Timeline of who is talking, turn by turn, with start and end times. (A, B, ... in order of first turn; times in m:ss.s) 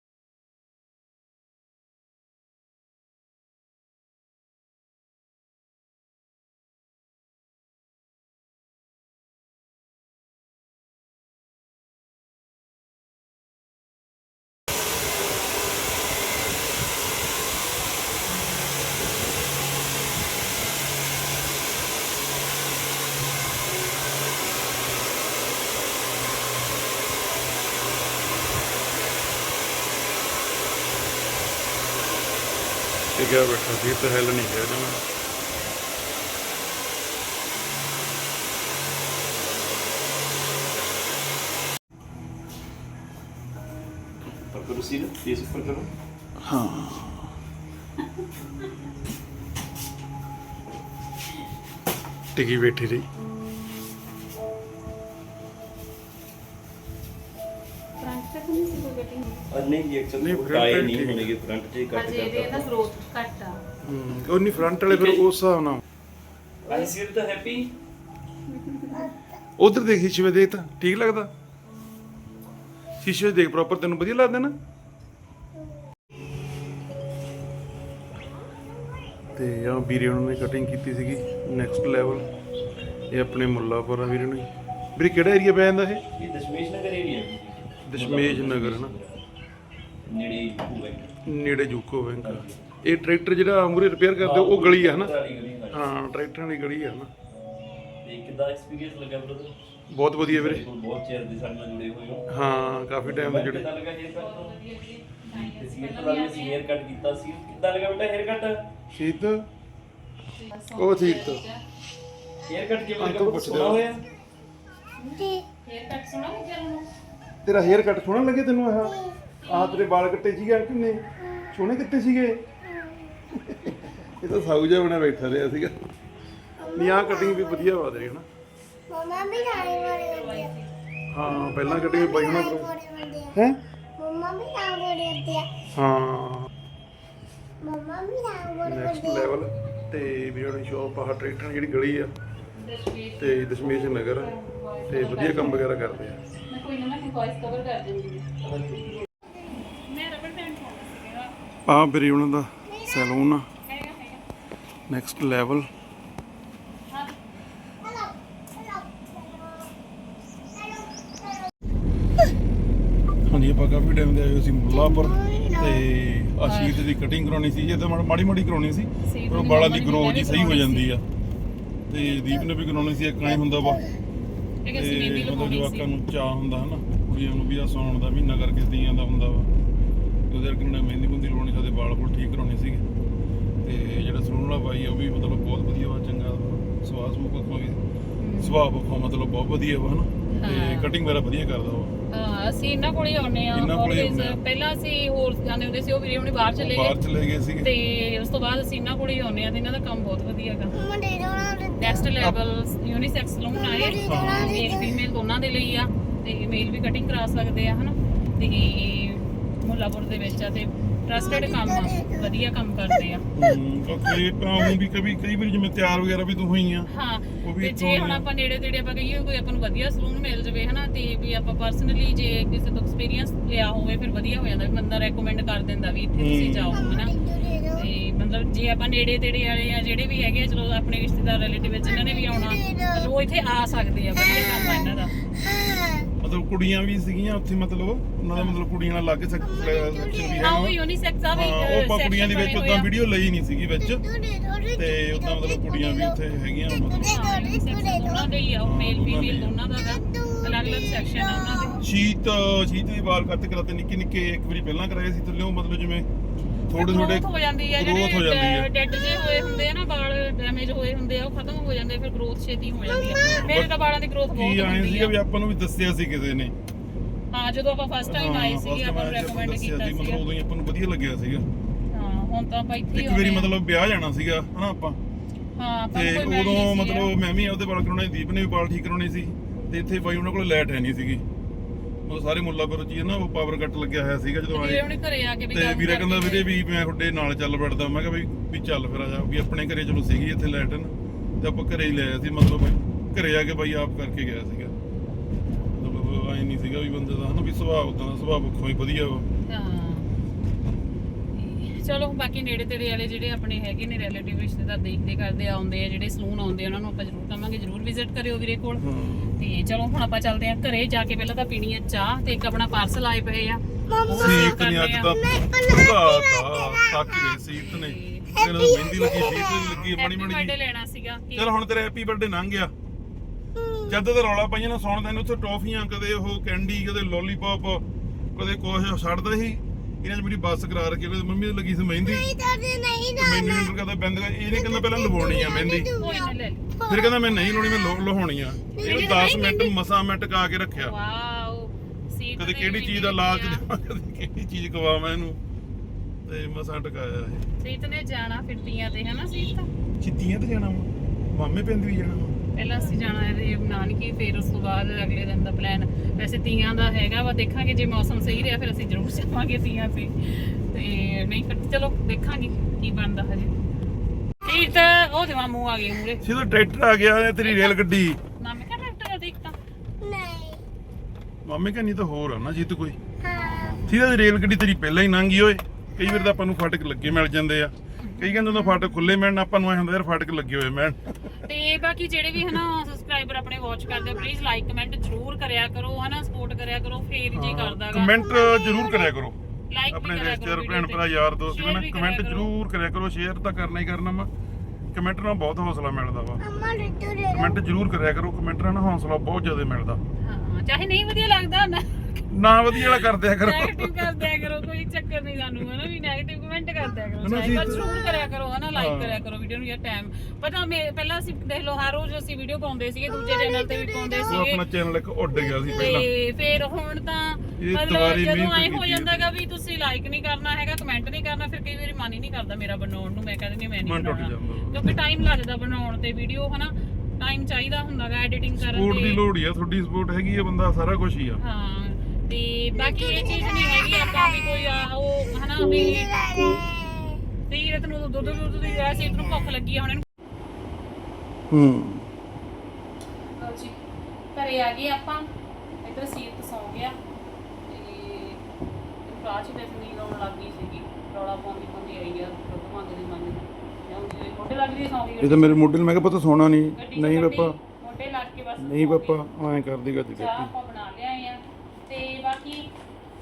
0:33.2-0:35.0 A
0:44.4-0:45.9 B
0:46.4-0:47.3 A
0:52.4-0:53.1 A
0:58.0-0:59.5 C
0:59.5-1:02.7 B
1:00.2-1:01.3 A
1:01.9-1:03.6 C
1:03.8-1:05.8 A
1:04.8-1:05.2 B
1:06.6-1:07.7 B
1:06.7-1:07.0 C
1:08.5-1:09.1 C
1:09.6-1:11.3 A
1:13.0-1:14.5 A
1:19.3-1:22.3 A
1:23.1-1:26.0 A
1:26.2-1:29.3 B
1:27.9-1:28.9 A
1:30.0-1:31.1 B
1:31.3-1:35.1 A
1:32.2-1:32.7 B
1:34.2-1:35.9 B
1:35.7-1:37.1 A
1:38.0-1:39.5 B
1:39.9-1:40.6 A
1:40.2-1:42.2 B
1:42.3-1:43.7 A
1:43.0-1:44.6 B
1:44.1-1:46.6 C
1:45.3-1:48.6 B
1:48.9-1:49.4 A
1:50.4-1:51.6 C
1:50.8-1:51.4 A
1:52.5-1:54.0 B
1:53.0-1:53.9 A
1:55.0-1:56.9 C
1:55.1-1:55.4 D
1:57.4-2:02.4 A
1:58.9-1:59.2 D
1:59.4-1:59.9 C
2:03.3-2:05.8 A
2:06.6-2:07.7 D
2:06.7-2:08.3 A
2:08.9-2:10.5 D
2:09.2-2:10.7 C
2:11.1-2:12.7 A
2:11.5-2:13.4 D
2:13.3-2:13.6 A
2:14.0-2:15.5 D
2:15.8-2:16.5 A
2:17.6-2:19.3 D
2:18.6-2:22.1 A
2:22.6-2:25.8 C
2:23.2-2:24.3 A
2:24.9-2:26.2 A
2:26.5-2:28.3 C
2:29.8-2:31.3 C
2:31.7-2:33.5 A
2:32.7-2:33.0 D
2:33.6-2:34.2 C
2:34.9-2:35.7 A
2:36.9-2:37.2 C
2:37.8-2:39.7 D
2:43.3-2:51.0 A
2:44.8-2:45.8 D
2:46.4-2:46.9 C
2:49.1-2:50.9 C
2:51.9-2:53.8 A
2:53.5-2:53.8 D
2:54.6-2:55.9 C
2:54.7-2:59.5 A
3:00.3-3:02.8 A
3:03.6-3:07.8 A
3:08.2-3:08.6 C
3:08.4-3:11.9 A
3:10.4-3:10.9 C
3:12.1-3:17.0 C
3:13.5-3:14.4 A
3:16.6-3:17.7 A
3:17.6-3:20.8 C
3:20.7-3:22.0 D
3:21.8-3:33.3 C
3:23.6-3:24.9 D
3:24.0-3:24.7 A
3:31.2-3:32.3 D
3:33.4-3:36.9 A
3:36.9-3:47.2 C
3:37.4-3:38.3 A
3:46.2-3:47.0 A
3:46.7-3:47.8 D
3:47.7-3:55.2 C
3:51.8-3:53.1 D
3:54.2-3:56.1 D
3:56.2-4:00.7 A
3:58.3-3:58.6 C
3:59.4-4:00.5 D
4:00.4-4:02.9 C
4:01.3-4:04.0 A
4:03.9-4:06.2 D
4:04.8-4:07.4 A
4:06.7-4:08.3 D
4:07.0-4:11.8 C
4:08.6-4:09.6 A
4:09.8-4:11.6 D
4:11.8-4:16.1 A
4:16.7-4:18.7 A
4:16.7-4:25.2 C
4:19.1-4:19.5 D
4:23.1-4:23.4 D
4:23.2-4:23.7 A
4:24.3-4:26.6 A
4:27.3-4:30.2 C
4:28.0-4:31.5 A
4:31.9-4:33.5 C
4:32.9-4:35.0 A
4:35.6-4:37.1 C
4:35.9-4:41.2 A
4:42.1-4:44.8 A
4:44.5-4:46.5 C
4:45.5-4:54.7 A
4:55.7-4:59.3 A
4:59.5-5:00.1 C
5:01.3-5:08.8 C
5:08.8-5:09.4 A
5:09.4-5:15.2 C
5:13.9-5:14.5 D
5:14.2-5:20.5 A
5:15.2-5:17.4 D
5:17.5-5:18.3 C
5:18.4-5:19.8 D
5:19.8-5:21.5 C
5:21.4-5:22.7 A
5:23.6-5:24.0 D
5:23.9-5:27.8 A
5:28.4-5:32.3 A
5:32.0-5:33.7 D
5:33.1-5:35.9 A
5:34.5-5:38.0 D
5:35.9-5:36.7 C
5:36.9-5:40.9 A
5:38.8-5:39.7 D
5:38.8-5:39.6 C
5:40.8-5:43.6 C
5:42.4-5:45.4 A
5:46.3-5:47.5 A
5:47.6-5:49.7 C
5:50.0-5:52.4 A
5:52.6-6:03.5 C
6:04.4-6:06.2 C
6:06.2-6:08.2 A
6:07.4-6:07.8 C
6:08.4-6:09.6 C
6:10.0-6:10.6 D
6:11.4-6:13.0 A
6:13.2-6:13.8 D
6:13.3-6:13.8 C
6:13.9-6:21.3 A
6:18.0-6:19.0 C
6:21.4-6:28.2 C
6:27.3-6:29.4 A
6:28.2-6:29.1 D
6:29.7-6:32.5 C
6:29.9-6:34.3 A
6:34.9-6:36.4 A
6:36.4-6:37.6 D
6:37.3-6:40.0 A
6:40.2-6:54.6 C
6:42.3-6:44.6 A
6:47.2-6:47.8 A
6:47.6-6:48.3 D
6:48.8-6:49.2 A
6:53.1-6:54.5 D
6:54.3-6:56.1 A
6:55.5-7:09.2 C
6:57.6-6:59.2 A
7:03.8-7:04.9 A
7:08.6-7:11.4 A
7:11.4-7:16.4 C
7:12.8-7:14.5 D
7:15.6-7:17.2 D
7:17.5-7:20.0 C
7:21.5-7:22.1 A
7:23.4-7:23.8 C
7:24.4-7:25.3 C
7:25.8-7:27.0 C
7:27.7-7:28.4 C
7:29.1-7:35.6 C
7:35.2-7:37.6 A
7:36.8-7:39.2 C
7:38.6-7:40.5 A
7:40.2-7:42.7 C